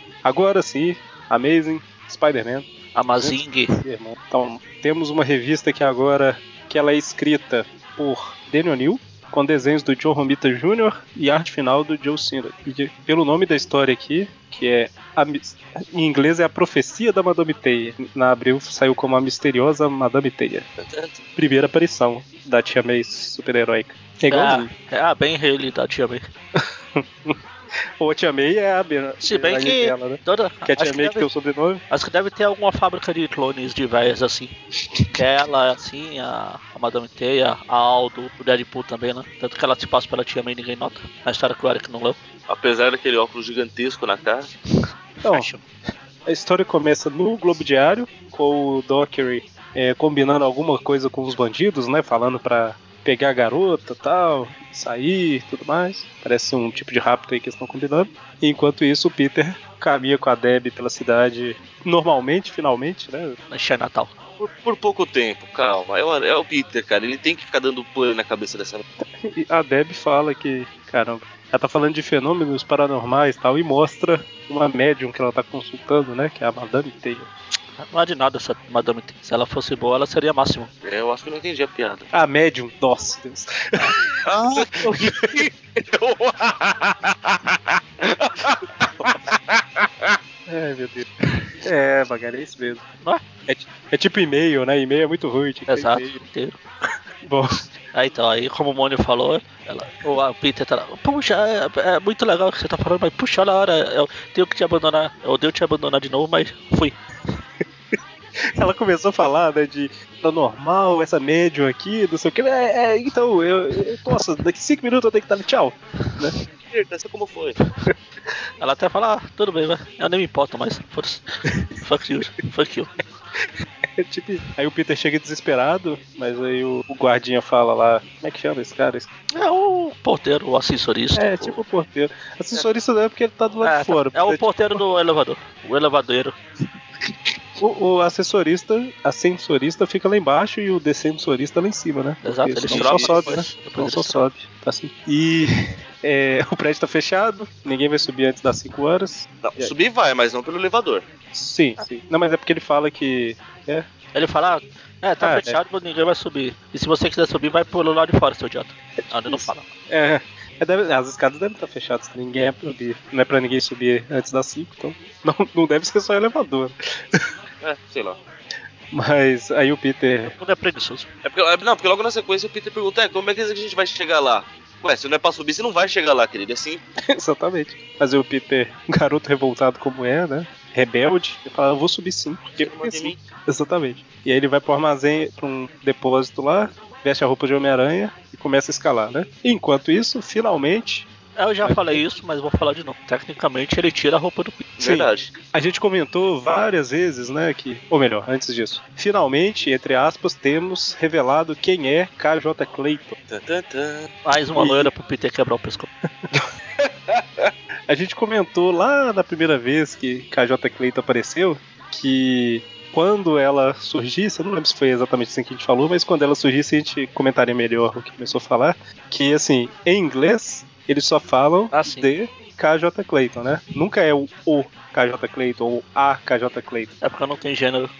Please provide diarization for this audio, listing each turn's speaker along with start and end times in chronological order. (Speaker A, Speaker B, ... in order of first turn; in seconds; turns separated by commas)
Speaker A: 0.2-20.6, Speaker B: 2.9-3.7, Speaker C: 20.8-21.2, Speaker A: 21.4-24.7, Speaker B: 24.3-26.2, Speaker A: 26.6-27.4, Speaker A: 28.0-31.8, Speaker B: 29.2-31.3, Speaker B: 31.9-34.5, Speaker B: 35.1-42.2, Speaker C: 42.5-44.5, Speaker B: 45.2-45.6, Speaker A: 46.2-63.4, Speaker B: 63.5-64.1, Speaker C: 64.4-68.8, Speaker A: 69.2-77.3, Speaker B: 77.8-80.7, Speaker C: 80.8-82.1, Speaker A: 82.1-83.9, Speaker C: 84.2-90.1, Speaker A: 84.8-85.4, Speaker A: 90.5-91.1, Speaker A: 91.6-92.8, Speaker A: 93.5-96.2, Speaker B: 95.7-96.6, Speaker A: 97.2-97.5, Speaker B: 97.9-107.0, Speaker A: 107.6-108.0, Speaker A: 108.5-116.3, Speaker C: 116.7-117.6, Speaker B: 118.6-121.2, Speaker B: 121.8-122.9, Speaker A: 123.4-129.1, Speaker B: 129.3-131.6, Speaker A: 131.2-134.8, Speaker B: 133.6-136.4, Speaker A: 137.6-149.7, Speaker B: 142.2-144.3, Speaker C: 142.7-143.4, Speaker C: 149.4-151.1, Speaker A: 151.3-153.8, Speaker B: 154.1-159.7, Speaker A: 155.2-155.6, Speaker A: 159.0-167.3, Speaker C: 167.6-168.2, Speaker A: 168.9-170.3, Speaker B: 170.2-171.1, Speaker C: 171.2-176.8, Speaker A: 177.2-191.1, Speaker C: 182.6-183.2, Speaker B: 191.3-194.7, Speaker A: 191.6-192.0, Speaker C: 194.8-195.3, Speaker A: 194.8-203.2, Speaker C: 203.3-204.1, Speaker B: 204.2-205.9, Speaker A: 204.6-204.9, Speaker C: 206.8-207.5, Speaker A: 207.9-226.9, Speaker B: 221.7-222.1, Speaker B: 227.0-227.9